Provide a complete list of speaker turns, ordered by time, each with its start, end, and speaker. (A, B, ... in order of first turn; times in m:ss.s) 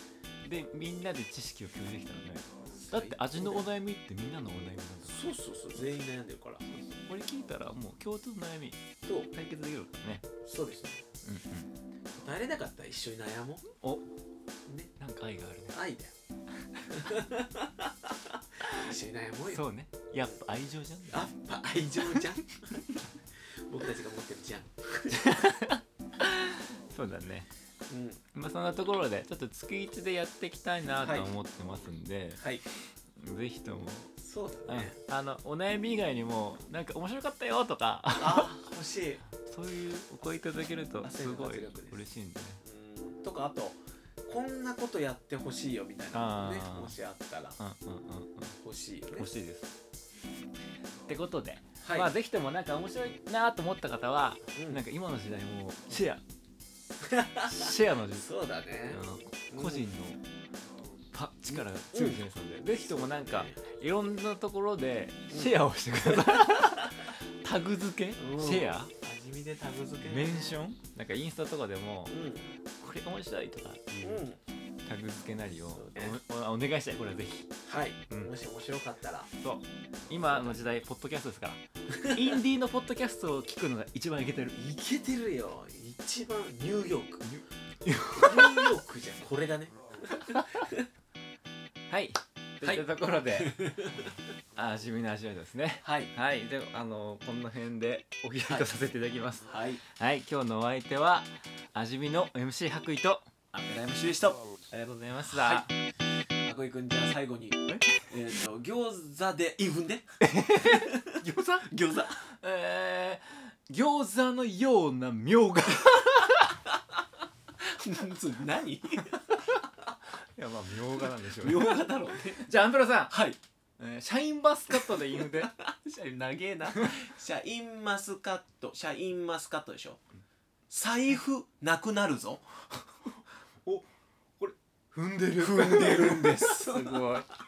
0:00.4-0:05.2 A
0:02.7-0:03.7 B
0:05.0-0:06.6 B
0:06.7-0:10.2 A
0:09.0-0:09.3 B
0:10.4-0:11.0 B
0:11.2-0:11.7 A
0:12.1-0:13.7 B
0:13.8-0:14.1 A
0:14.6-0:14.9 B
0:15.0-0:15.8 A
0:15.7-0:16.1 B
0:16.7-0:17.0 A
0:16.9-0:19.6 B
0:19.5-0:21.3 A
0:21.1-0:22.9 B
0:23.7-0:25.2 B
0:25.1-0:27.5 A
0:27.9-0:28.2 B
0:28.3-0:32.4 A
0:31.0-0:31.3 B
0:32.4-0:32.6 B
0:33.2-0:34.1 A
0:34.2-0:35.0 B
0:34.7-0:38.6 A
0:38.2-0:39.2 B
0:39.4-0:42.6 A
0:41.0-0:42.0 B
0:42.6-0:47.6 B
0:46.1-0:47.0 A
0:47.6-0:48.6 A
0:48.6-0:49.3 B
0:49.1-0:49.8 A
0:51.1-0:56.2 A
0:51.8-0:52.1 B
0:54.6-0:54.8 B
0:57.0-0:59.9 B
0:57.4-0:58.3 A
0:58.9-1:00.2 A
1:01.1-1:08.9 A
1:01.5-1:02.2 B
1:02.7-1:03.6 B
1:06.0-1:06.9 B
1:08.2-1:10.6 B
1:10.1-1:12.2 A
1:12.1-1:12.6 B
1:12.8-1:14.3 A
1:14.0-1:14.4 B
1:14.8-1:17.5 A
1:15.7-1:16.2 B
1:17.6-1:19.3 B
1:19.4-1:24.6 A
1:20.2-1:20.6 B
1:21.9-1:22.4 B
1:24.5-1:27.3 B
1:27.2-1:28.8 A
1:28.2-1:30.9 B
1:31.9-1:33.7 A
1:32.6-1:32.9 B
1:33.4-1:34.1 B
1:34.6-1:43.3 A
1:35.8-1:36.1 B
1:39.4-1:39.8 B
1:43.5-1:44.4 B
1:44.7-1:45.7 A
1:45.3-1:45.7 B
1:46.4-1:52.2 B
1:47.7-1:48.1 A
1:50.2-1:56.6 A
1:57.6-1:59.9 B
2:00.4-2:03.2 A
2:01.0-2:02.5 B
2:03.1-2:03.4 B
2:03.8-2:05.5 A
2:04.7-2:10.0 B
2:10.7-2:12.7 B
2:14.4-2:17.3 A
2:15.4-2:17.1 B